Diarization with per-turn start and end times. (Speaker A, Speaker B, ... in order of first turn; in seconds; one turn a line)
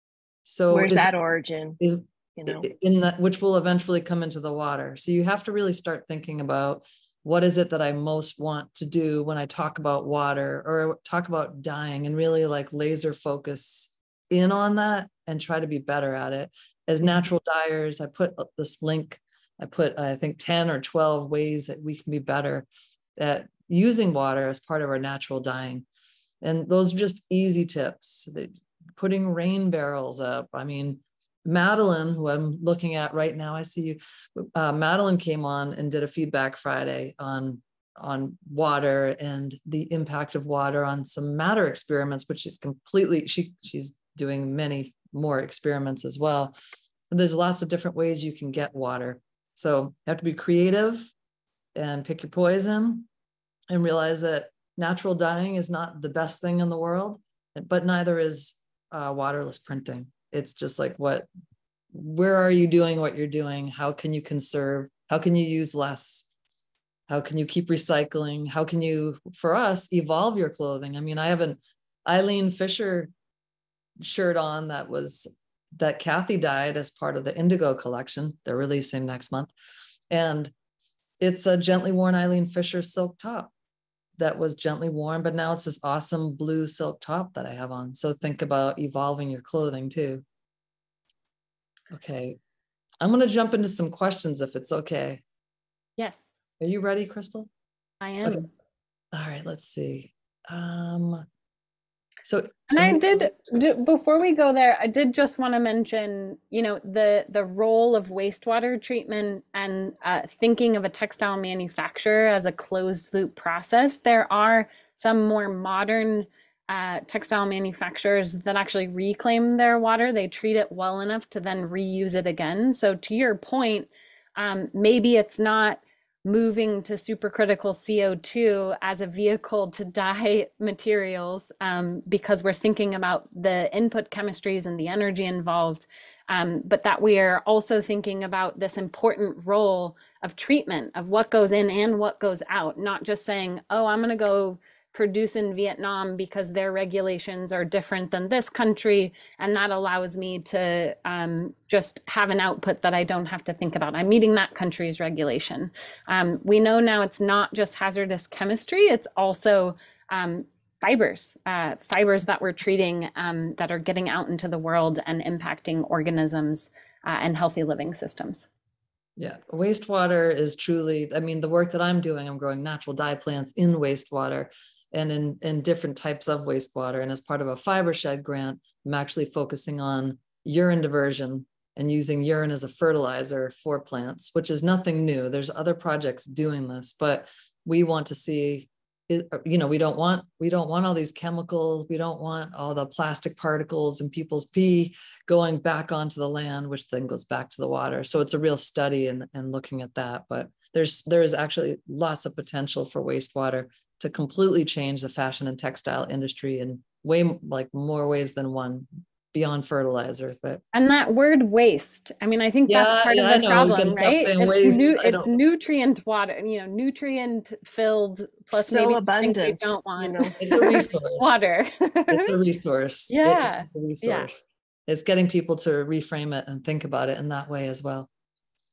Speaker A: 0.5-1.1
Speaker B: 0.7-1.8
Speaker A: 1.8-25.9
Speaker B: 2.4-2.6
Speaker A: 26.4-46.5
Speaker A: 47.1-51.1
Speaker A: 51.8-53.1
Speaker A: 53.7-61.3
Speaker A: 61.9-66.3
Speaker A: 67.1-73.1
Speaker A: 74.0-79.5
Speaker A: 80.1-80.5
Speaker A: 81.2-83.5
Speaker A: 84.2-90.2
Speaker A: 91.9-92.4
Speaker A: 93.0-95.2
Speaker C: 96.0-96.3
Speaker A: 96.6-97.5
Speaker C: 98.0-98.5
Speaker A: 99.1-101.3
Speaker A: 102.2-103.3
Speaker C: 102.7-168.5
Speaker A: 169.2-210.6
Speaker C: 210.7-222.3
Speaker A: 212.7-215.4
Speaker B: 218.5-220.7
Speaker A: 220.4-221.5
Speaker A: 222.1-228.1
Speaker C: 223.1-224.3